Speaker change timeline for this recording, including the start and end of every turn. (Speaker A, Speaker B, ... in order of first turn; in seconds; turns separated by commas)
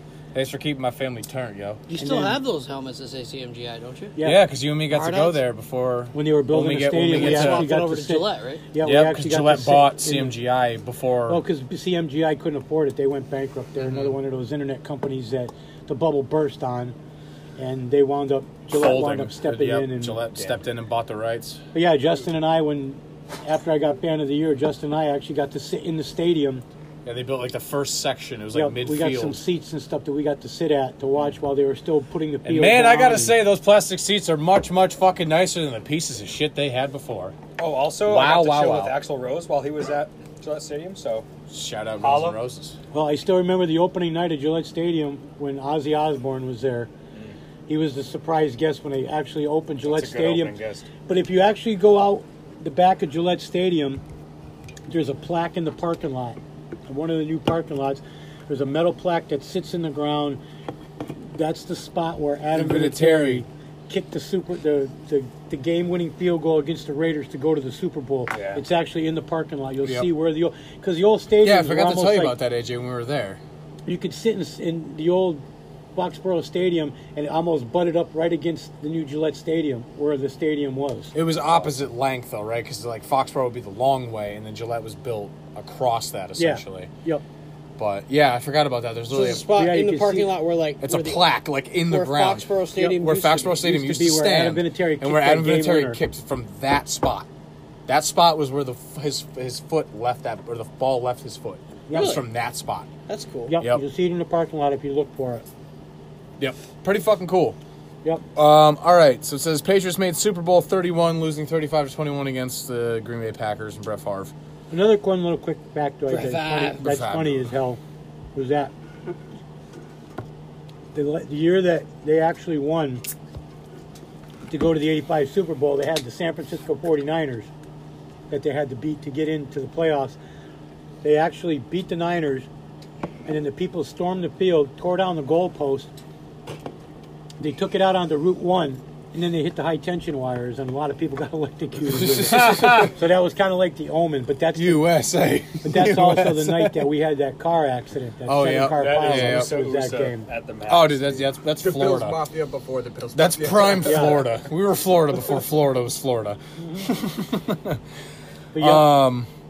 Speaker A: 0.3-1.8, Speaker B: 1.9-4.2, Speaker C: 2.0-2.4, Speaker C: 4.2-4.4, Speaker A: 4.2-7.7, Speaker B: 4.9-5.4, Speaker C: 6.1-10.3, Speaker B: 7.0-8.6, Speaker A: 8.8-11.4, Speaker C: 11.3-16.9, Speaker A: 13.8-14.2, Speaker C: 17.6-20.3, Speaker A: 18.7-21.6, Speaker C: 21.7-26.6, Speaker A: 27.0-29.4, Speaker C: 28.5-33.4, Speaker A: 32.4-37.4, Speaker D: 37.6-41.3, Speaker A: 38.0-39.0, Speaker A: 41.5-42.8, Speaker D: 42.0-42.4, Speaker C: 42.9-46.9, Speaker C: 47.7-54.0, Speaker D: 49.8-50.9, Speaker C: 54.9-60.4, Speaker C: 61.3-72.4, Speaker A: 62.5-63.4, Speaker D: 68.3-68.6, Speaker A: 71.4-73.4, Speaker C: 73.9-75.4, Speaker C: 75.9-81.1, Speaker A: 81.1-86.9, Speaker C: 86.4-87.2, Speaker A: 87.8-89.5, Speaker B: 89.1-91.2, Speaker C: 89.5-90.3, Speaker A: 90.8-97.3, Speaker B: 91.8-93.6, Speaker C: 92.8-93.1, Speaker C: 93.6-96.0, Speaker A: 97.9-102.9, Speaker C: 101.9-102.2, Speaker B: 101.9-102.2, Speaker B: 103.1-103.5, Speaker C: 103.5-105.5, Speaker A: 106.4-107.6, Speaker A: 108.3-114.3, Speaker C: 114.7-117.8, Speaker B: 116.1-116.8, Speaker A: 116.8-117.5, Speaker C: 118.3-118.7, Speaker C: 120.9-123.0, Speaker C: 124.5-127.5, Speaker C: 128.3-130.2, Speaker C: 131.0-132.5, Speaker C: 133.2-135.9, Speaker C: 137.4-144.9, Speaker A: 141.9-143.0, Speaker A: 144.5-146.9, Speaker C: 145.6-150.3, Speaker A: 148.2-149.5, Speaker D: 148.7-151.3, Speaker A: 150.7-152.2, Speaker E: 151.6-154.3, Speaker A: 153.1-157.8, Speaker C: 153.8-154.3, Speaker C: 156.6-156.9, Speaker C: 158.5-158.9, Speaker A: 158.6-159.3